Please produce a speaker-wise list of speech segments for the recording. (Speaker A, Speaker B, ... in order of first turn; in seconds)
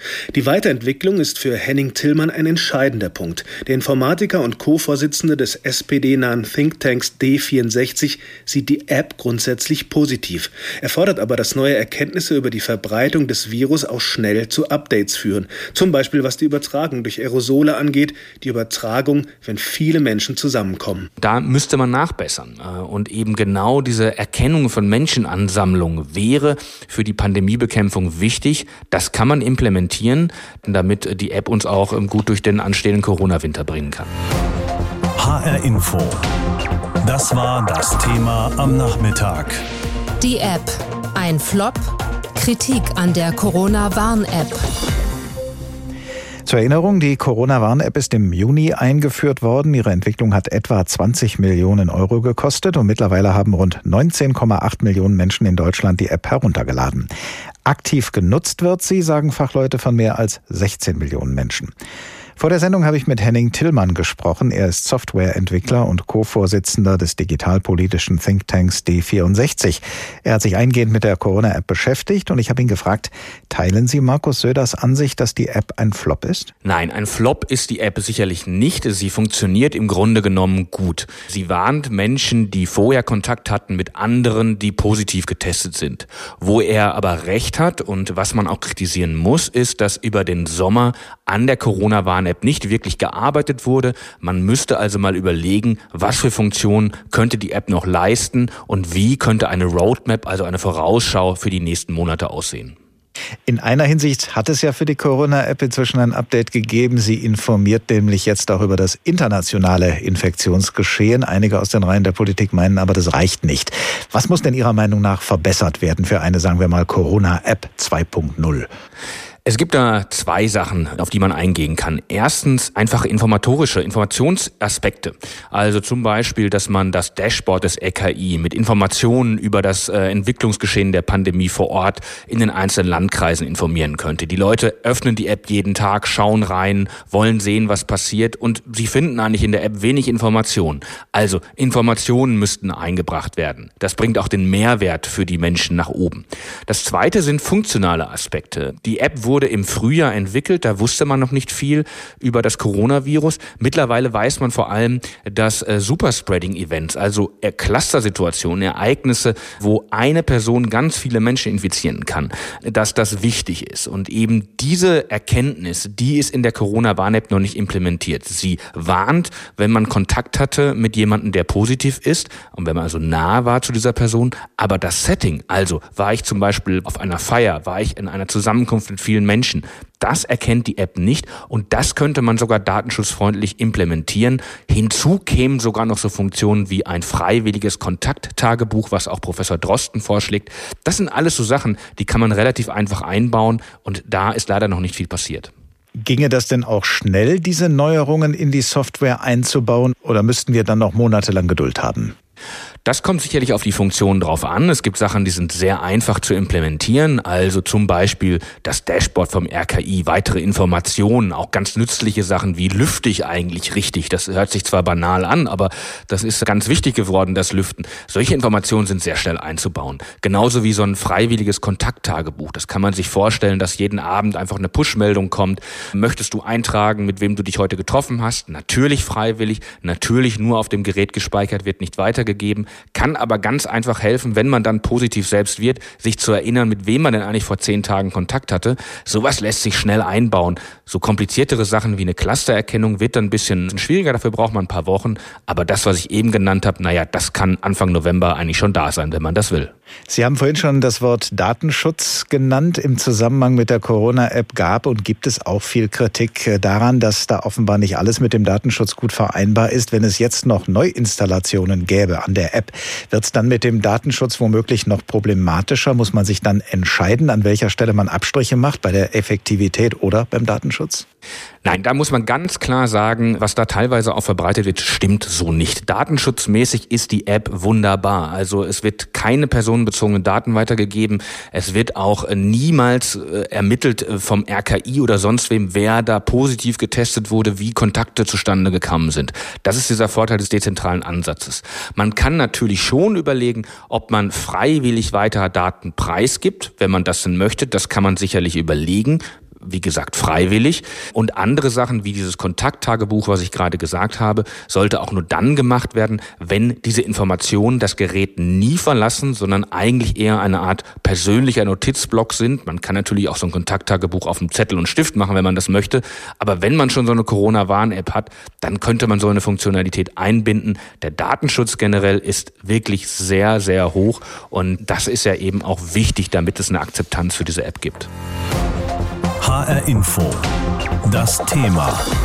Speaker A: 0.3-21.1
Speaker B: 21.2-34.1, 76.6-102.8, 119.5-195.5, 202.8-249.7, 271.6-328.1
Speaker C: 35.2-36.2, 37.0-39.6, 329.4-330.4, 331.0-332.0
Speaker D: 40.2-44.6
Speaker E: 46.5-57.1, 57.6-61.7, 62.4-76.5, 103.5-118.7, 196.0-202.1, 250.1-271.0